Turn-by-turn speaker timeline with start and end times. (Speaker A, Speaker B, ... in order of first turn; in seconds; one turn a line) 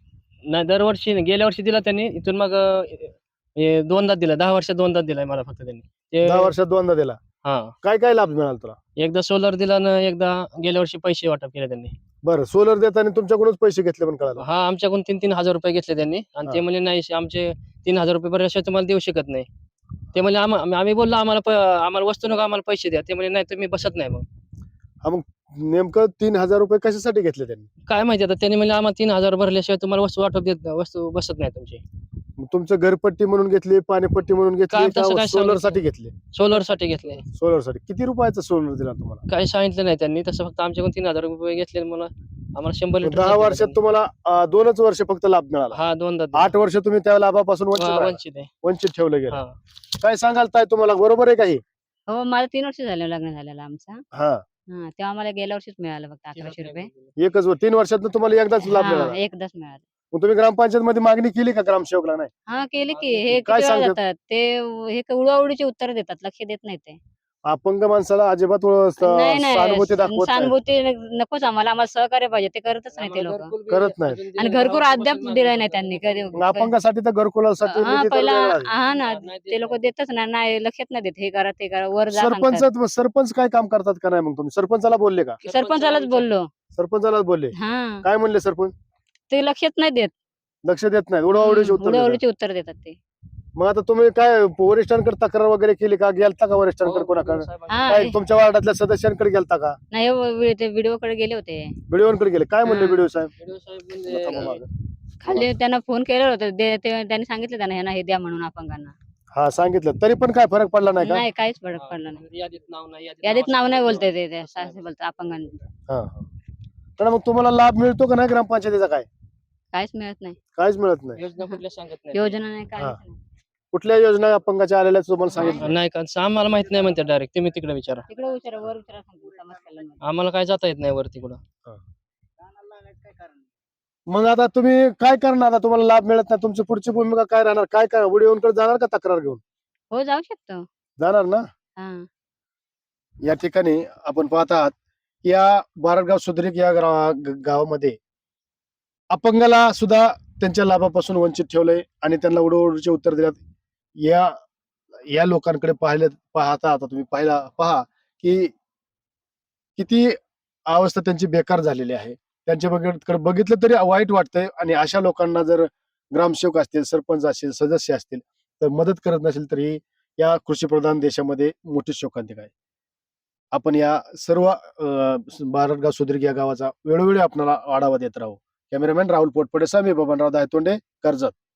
Speaker A: 0.5-6.5
Speaker B: 6.2-7.2
Speaker A: 7.4-7.7
Speaker B: 7.8-8.8
Speaker A: 9.0-11.9
Speaker B: 12.2-14.4
Speaker A: 14.4-19.5
Speaker A: 20.1-24.2
Speaker B: 25.0-27.7
Speaker A: 27.9-31.8
Speaker B: 32.4-39.2
Speaker A: 34.7-37.2
Speaker A: 39.3-43.8
Speaker B: 43.0-45.8
Speaker A: 45.7-46.5
Speaker B: 46.3-49.4
Speaker A: 47.7-48.5
Speaker A: 49.3-49.6
Speaker B: 50.0-51.6
Speaker C: 52.1-54.0
Speaker B: 54.1-54.4
Speaker C: 54.7-56.9
Speaker A: 56.3-57.1
Speaker B: 57.2-59.2
Speaker C: 58.6-59.8
Speaker B: 60.1-62.3
Speaker C: 62.5-67.0
Speaker A: 62.8-63.5
Speaker B: 63.4-64.0
Speaker B: 67.5-70.5
Speaker C: 69.0-73.5
Speaker A: 72.9-76.4
Speaker B: 73.7-74.2
Speaker C: 74.4-76.7
Speaker B: 76.3-78.7
Speaker C: 77.7-82.7
Speaker A: 78.8-79.9
Speaker B: 82.1-85.4
Speaker A: 85.4-86.3
Speaker C: 85.4-86.5
Speaker B: 86.7-88.7
Speaker C: 87.5-88.0
Speaker C: 89.3-90.1
Speaker B: 90.6-92.2
Speaker C: 91.3-93.0
Speaker B: 93.5-99.8
Speaker A: 96.8-98.1
Speaker C: 97.7-98.1
Speaker C: 99.9-101.7
Speaker B: 101.9-103.3
Speaker A: 102.7-104.6
Speaker B: 104.1-104.7
Speaker C: 104.1-104.5
Speaker C: 105.2-108.9
Speaker B: 109.3-111.2
Speaker C: 111.0-112.2
Speaker A: 111.7-114.9
Speaker C: 113.2-115.6
Speaker B: 115.9-116.3
Speaker B: 117.0-119.1
Speaker C: 119.7-120.4
Speaker B: 120.5-121.2
Speaker A: 121.2-122.4
Speaker C: 122.1-123.2
Speaker B: 123.7-125.7
Speaker C: 125.4-125.7
Speaker A: 125.5-128.1
Speaker C: 128.1-130.0
Speaker A: 130.0-131.4
Speaker B: 134.1-139.4
Speaker C: 139.9-140.7
Speaker B: 141.0-141.4
Speaker C: 141.8-142.1
Speaker B: 143.2-148.0
Speaker B: 149.1-153.4
Speaker B: 154.0-154.3
Speaker B: 155.1-158.5
Speaker B: 159.8-160.2
Speaker B: 160.7-172.5
Speaker B: 173.5-181.3